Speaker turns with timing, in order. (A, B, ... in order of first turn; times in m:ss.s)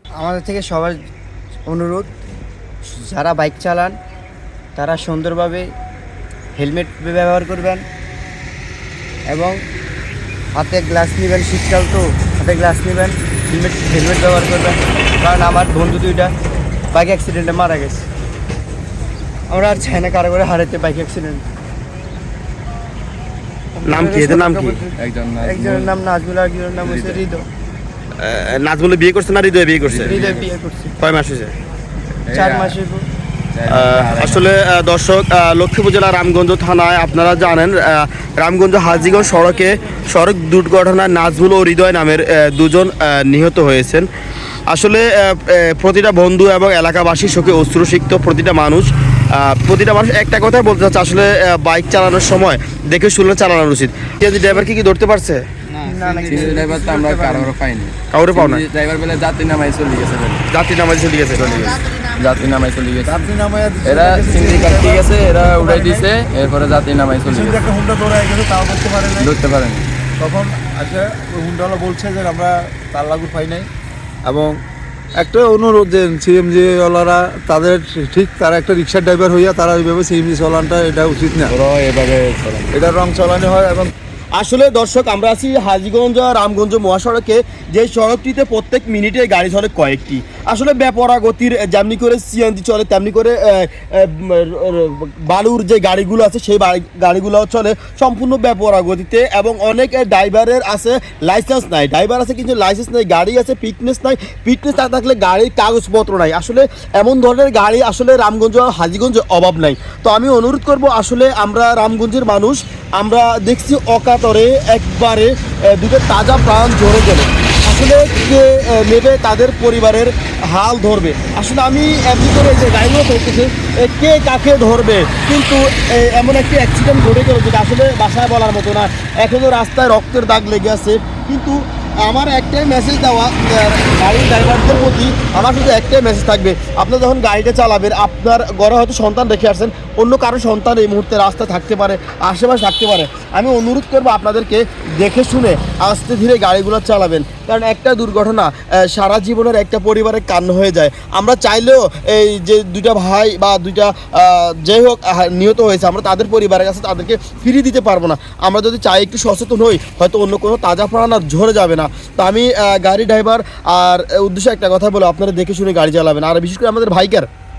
0:00.2-0:01.0 A
0:01.7-0:02.1 A
0:02.9-0:04.0 A
0:04.8-0:05.7 A
0:06.6-0:07.8 A
0:09.3-0:09.6 A
0:10.6-0:16.3 A
0:16.9-0:18.1 A
0:19.5-0:21.4 A
0:23.8-0:27.4 A
0:23.8-0:24.8 B
0:25.0-0:26.0 C
0:26.8-0:27.2 C
0:28.2-0:30.4 B
0:29.8-0:30.5 C
0:30.1-0:31.0 A
0:31.0-0:31.5 B
0:32.2-0:32.8 C
0:32.3-0:33.1 A
0:33.5-0:34.5 C
0:33.7-0:44.1 B
0:44.7-0:55.4 B
0:55.7-0:56.6 D
0:55.8-0:57.5 A
0:56.3-1:00.4 C
0:58.1-0:58.6 B
1:00.5-1:01.8 B
1:01.4-1:03.3 C
1:03.0-1:06.1 D
1:03.8-1:07.7 C
1:07.3-1:09.3 D
1:09.2-1:09.9 C
1:10.2-1:13.7 D
1:14.3-1:14.6 D
1:15.2-1:21.6 D
1:21.5-1:22.7 C
1:22.7-1:23.9 D
1:24.4-2:47.3 B